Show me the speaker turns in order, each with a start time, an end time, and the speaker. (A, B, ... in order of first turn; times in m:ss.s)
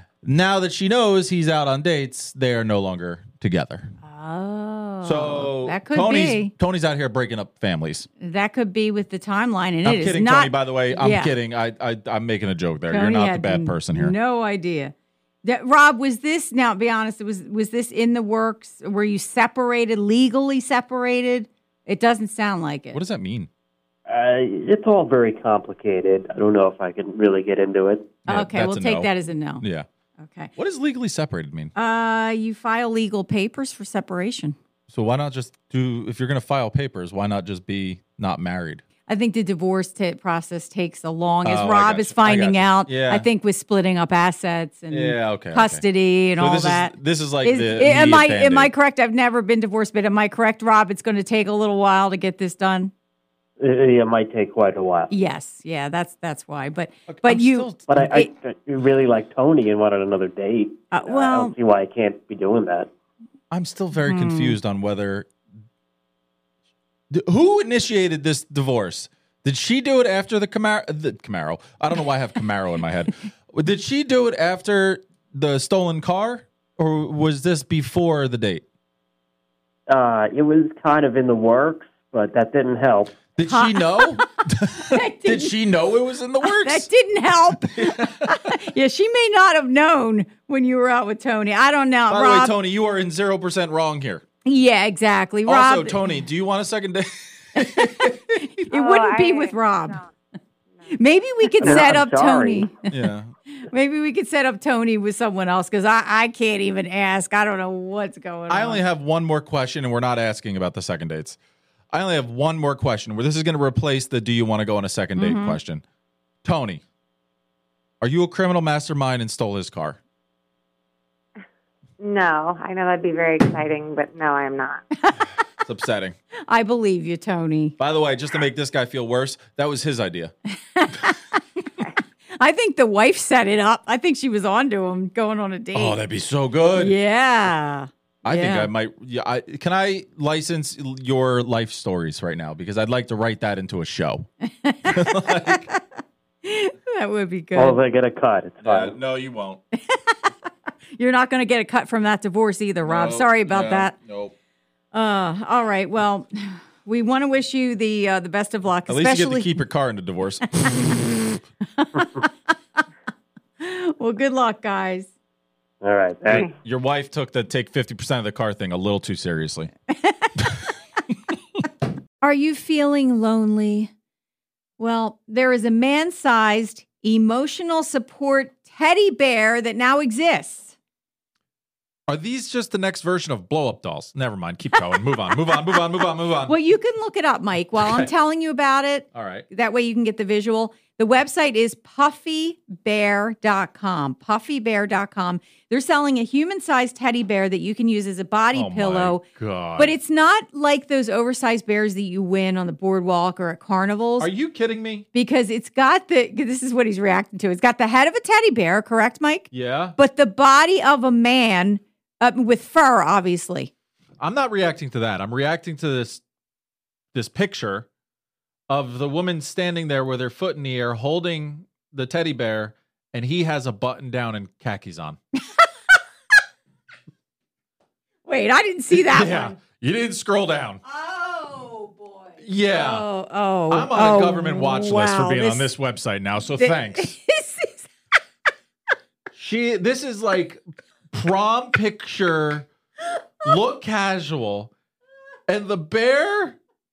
0:00.2-0:03.9 A
0:04.0-0:06.5 B
0:05.0-0:08.1 A
0:08.2-0:11.3 B
0:09.8-0:14.1 A
0:12.9-0:23.0 B
0:22.9-0:23.5 A
0:24.1-0:28.2 C
0:28.3-0:29.9 A
0:28.3-0:29.6 B
0:30.2-0:30.5 B
0:30.6-0:31.7 A
0:31.8-0:34.6 B
0:34.9-0:38.8 A
0:39.1-0:52.9 B
0:41.4-0:43.3 A
0:44.9-0:48.7 A
0:53.6-0:55.1 C
0:55.1-0:58.3 B
0:57.1-0:58.1 A
0:57.9-1:02.9 C
1:00.9-1:01.5 B
1:03.5-1:05.3 A
1:04.0-1:04.6 B
1:07.1-1:18.6 A
1:19.9-1:23.2 C
1:23.4-1:26.9 A
1:23.5-1:25.5 B
1:26.4-1:32.6 B
1:27.6-1:28.6 A
1:32.1-1:34.2 A
1:34.5-1:36.2 B
1:35.5-1:38.5 A
1:37.6-1:40.0 B
1:38.7-1:40.1 D
1:40.9-1:42.7 B
1:41.6-1:42.7 C
1:42.9-1:43.3 A
1:43.5-1:48.8 B
1:48.5-1:51.4 A
1:51.9-1:55.8 A
1:55.2-1:55.6 B
1:56.4-1:56.8 A
1:58.0-2:00.0 A
2:02.0-2:04.8 D
2:05.6-2:06.2 A
2:06.5-2:07.8 B
2:07.8-2:10.3 A
2:10.8-2:16.0 B
2:15.7-2:16.9 A
2:16.8-2:18.7 B
2:18.2-2:24.3 A
2:24.4-2:25.8 B
2:24.9-2:25.7 A
2:26.4-2:27.8 B
2:27.6-2:29.0 C
2:28.6-2:29.6 A
2:29.7-2:30.3 B
2:31.0-2:33.9 B
2:32.8-2:34.3 A
2:34.9-2:39.6 B
2:38.9-2:40.9 A
2:40.6-2:42.3 B
2:43.6-2:45.1 B
2:45.8-2:46.5 C
2:46.3-2:49.7 A
2:50.0-2:50.3 B
2:52.2-2:53.9 B
2:54.8-3:00.8 B
3:02.1-3:06.6 A
3:06.5-3:19.2 B
3:07.8-3:08.1 A
3:09.1-3:09.5 A
3:18.5-3:19.9 A
3:19.8-3:24.3 B
3:24.2-3:25.1 A
3:25.1-3:33.7 B
3:29.5-3:30.0 A
3:34.2-3:36.2 A
3:37.1-3:37.9 A
3:38.7-3:45.2 A
3:48.3-3:49.6 B
3:48.9-3:50.8 A
3:50.8-3:55.7 B
3:52.4-3:53.1 A
3:53.7-3:57.2 A
3:56.6-3:57.9 B
3:59.3-4:02.7 A
4:03.4-4:04.7 A
4:05.5-4:06.6 A